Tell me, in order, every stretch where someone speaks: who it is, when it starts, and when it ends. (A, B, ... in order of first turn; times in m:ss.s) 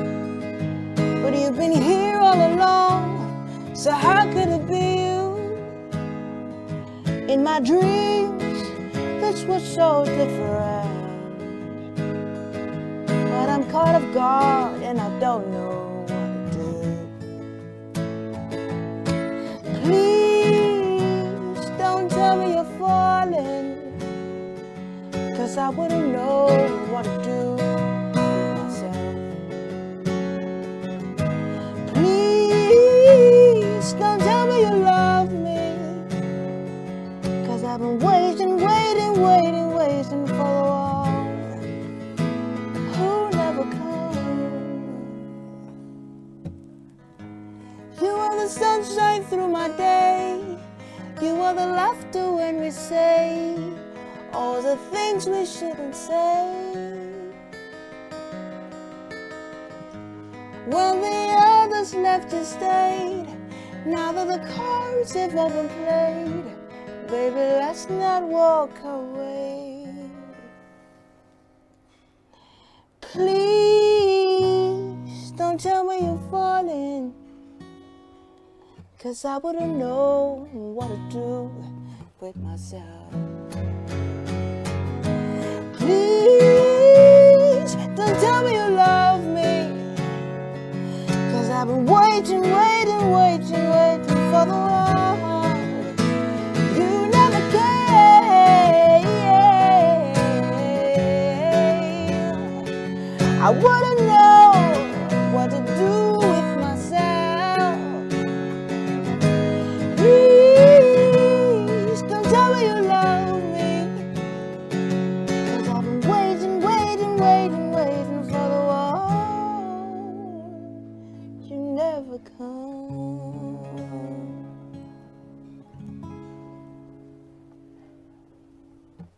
0:01.2-0:05.7 A
0:07.3-0:11.8 A
0:13.3-0:17.1 A
0:19.7-0:24.0 A
0:25.3-0:29.3 A
0:31.8-0:36.1 A
0:37.4-0:41.7 A
0:42.9-0:45.2 A
0:47.9-0:50.6 A
0:51.2-0:57.3 A
1:00.6-1:10.3 A
1:13.0-1:17.2 A
1:19.0-1:21.6 A
1:22.2-1:23.3 A
1:25.7-1:30.0 A
1:31.3-1:36.0 A
1:36.6-1:42.6 A
1:43.4-1:48.0 A
1:49.9-1:54.0 A
1:55.5-2:00.6 A
2:01.4-2:04.4 A